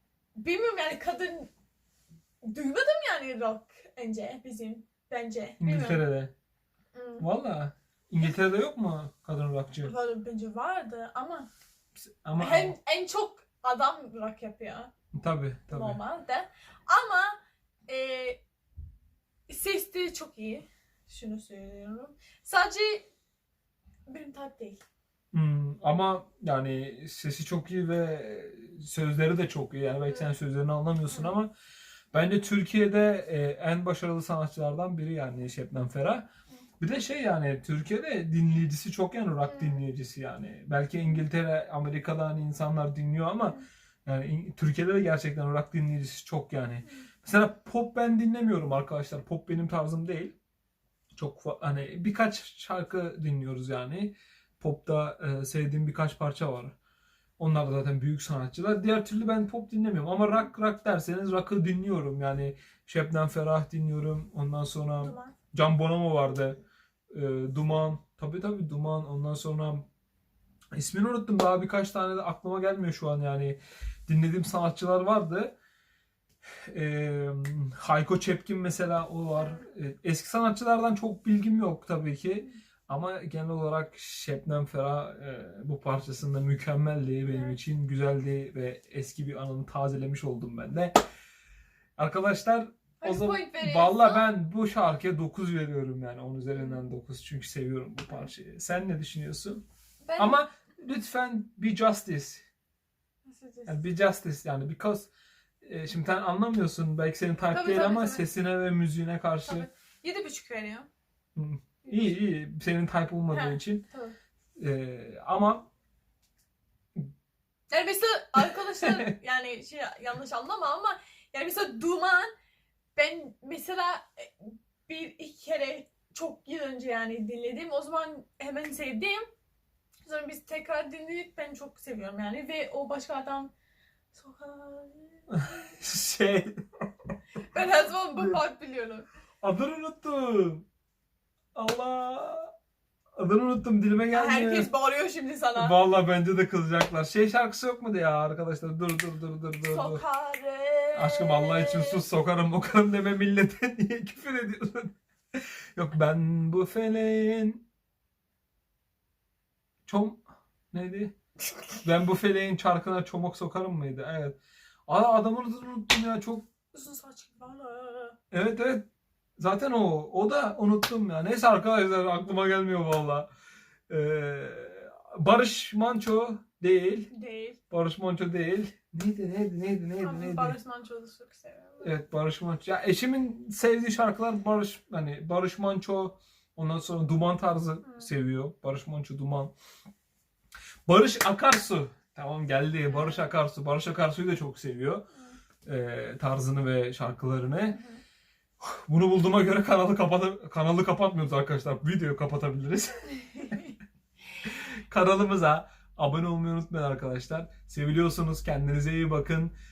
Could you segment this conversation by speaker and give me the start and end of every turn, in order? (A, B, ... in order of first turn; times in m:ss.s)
0:00.4-0:01.5 A
0:02.4-0:06.0 A
0:05.6-0:06.3 B
0:06.9-0:07.3 A
0:07.2-0:09.9 B
0:09.8-0:11.5 A
0:12.2-0:12.8 B
0:12.4-0:14.9 A
0:15.1-0:16.0 B
0:15.7-0:18.4 A
0:19.5-0:23.1 A
0:24.1-0:24.8 A
0:25.3-0:31.5 B
0:31.1-0:31.4 A
0:32.1-0:36.3 B
0:36.8-0:50.3 B
0:39.5-0:39.8 A
0:51.2-0:56.8 B
0:57.4-1:06.6 B
1:05.0-1:05.4 A
1:07.1-1:09.9 B
1:10.8-1:15.6 B
1:16.7-1:31.0 B
1:19.3-1:19.6 A
1:27.3-1:27.6 A
1:32.0-1:39.6 B
1:33.0-1:34.3 A
1:36.5-1:36.8 A
1:40.0-1:40.4 A
1:40.2-1:42.5 B
1:43.3-1:43.8 A
1:43.7-1:45.1 B
1:45.6-1:49.7 B
1:47.5-1:48.2 A
1:49.4-1:50.9 A
1:51.4-1:53.8 B
1:53.3-1:54.1 A
1:54.6-1:55.7 B
1:57.7-2:02.3 A
1:58.4-1:59.1 B
2:03.0-2:09.3 A
2:10.0-2:13.5 A
2:14.1-2:15.7 A
2:15.3-2:16.6 B
2:17.5-2:19.1 A
2:18.2-2:18.4 B
2:19.4-2:20.7 B
2:21.6-2:22.5 B
2:23.2-2:24.7 B
2:24.1-2:25.8 A
2:25.6-2:30.0 B
2:29.6-2:32.0 A
2:30.9-2:37.6 B
2:39.9-2:41.1 B
2:41.8-2:46.5 B
2:46.7-2:48.2 A
2:48.3-2:48.9 B
2:49.4-2:53.3 B
2:53.9-2:57.1 B
2:57.1-2:57.6 A
2:57.7-3:00.6 B
3:00.0-3:02.0 A
3:01.8-3:09.5 B
3:07.8-3:08.1 A
3:10.9-3:15.0 B
3:12.9-3:13.4 A
3:15.1-3:15.4 A
3:15.6-3:17.8 B
3:17.7-3:18.0 A
3:18.6-3:23.3 B
3:23.1-3:23.8 A
3:24.5-3:29.5 B